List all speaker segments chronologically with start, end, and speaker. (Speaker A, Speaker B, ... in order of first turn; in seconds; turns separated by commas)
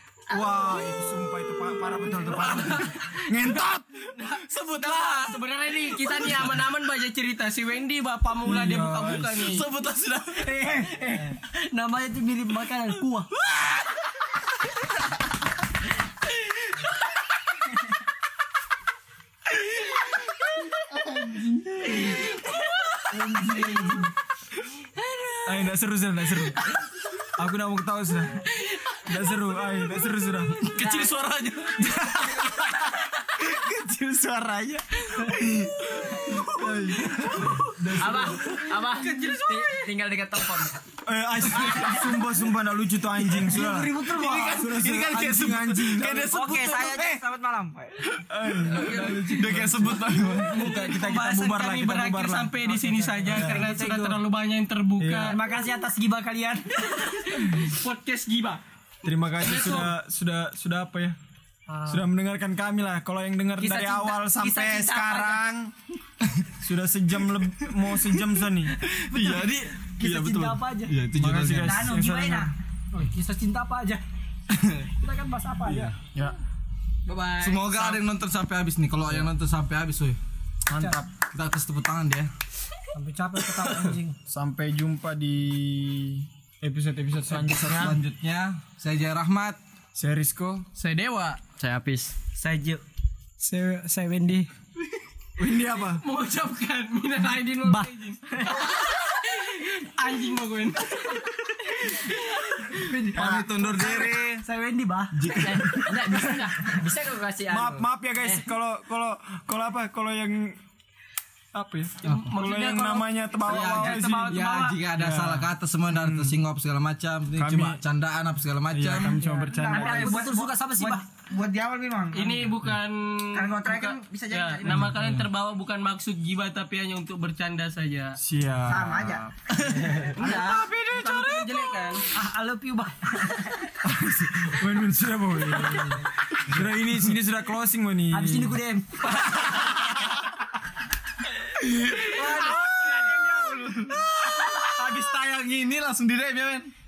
Speaker A: 0.3-4.0, Speaker B: 2.5-2.8, Speaker B: 4.3-5.4, Speaker C: 4.4-9.7, Speaker B: 6.2-6.5, Speaker A: 8.4-9.5, Speaker B: 9.4-10.5, Speaker D: 10.4-13.3, Speaker A: 10.8-11.1, Speaker A: 20.9-22.3, Speaker A: 23.1-24.1, Speaker E: 25.1-25.4, Speaker A: 25.5-26.7, Speaker A: 27.4-28.4, Speaker A: 29.1-30.6, Speaker B: 30.6-32.1, Speaker E: 30.7-31.3, Speaker A: 31.8-38.6, Speaker B: 36.6-37.6, Speaker E: 38.0-40.8, Speaker C: 38.9-39.9, Speaker A: 41.1-46.2, Speaker D: 43.4-44.7, Speaker B: 44.0-47.2, Speaker F: 46.0-48.2, Speaker A: 48.3-53.7, Speaker B: 48.7-50.8, Speaker C: 48.8-49.3, Speaker C: 50.4-55.4, Speaker D: 52.8-54.2, Speaker A: 55.0-55.4, Speaker D: 55.2-57.5, Speaker C: 57.4-58.6, Speaker A: 59.0-61.2, Speaker C: 59.4-59.9, Speaker D: 61.7-62.0, Speaker A: 61.9-65.7, Speaker D: 63.6-65.4, Speaker A: 66.6-68.8, Speaker B: 68.8-71.9, Speaker D: 70.0-71.0, Speaker A: 71.2-72.5, Speaker F: 71.5-72.5, Speaker D: 72.9-74.0, Speaker B: 74.5-74.9, Speaker D: 75.0-76.0, Speaker B: 75.7-76.3, Speaker E: 77.1-78.0, Speaker B: 77.4-80.2, Speaker A: 80.7-81.1, Speaker D: 80.7-81.0, Speaker B: 81.2-82.3, Speaker D: 82.9-84.2, Speaker A: 84.3-88.0, Speaker B: 87.3-89.6, Speaker A: 90.0-90.7, Speaker E: 90.8-92.2, Speaker F: 92.4-92.8, Speaker D: 93.4-94.5, Speaker A: 95.4-96.0, Speaker C: 96.0-102.7, Speaker D: 102.7-105.3, Speaker B: 103.1-104.4, Speaker B: 105.2-106.0, Speaker E: 105.3-108.4, Speaker A: 107.5-110.6, Speaker A: 111.5-116.4, Speaker C: 112.0-114.2, Speaker B: 113.5-119.2, Speaker D: 114.0-114.8, Speaker A: 117.4-117.8, Speaker A: 118.7-120.3, Speaker D: 119.2-121.1, Speaker F: 119.2-122.6, Speaker C: 122.1-128.2, Speaker F: 123.3-124.9, Speaker B: 124.7-125.3, Speaker A: 128.2-129.2, Speaker F: 128.7-129.2, Speaker B: 128.8-131.1, Speaker D: 129.9-130.6, Speaker C: 130.0-132.1, Speaker D: 132.1-133.7, Speaker A: 133.8-138.6, Speaker D: 138.1-139.1, Speaker A: 139.1-140.2, Speaker B: 139.2-139.4, Speaker B: 141.9-146.7, Speaker D: 142.2-142.4, Speaker C: 142.2-143.6, Speaker A: 142.2-142.5, Speaker A: 144.5-145.1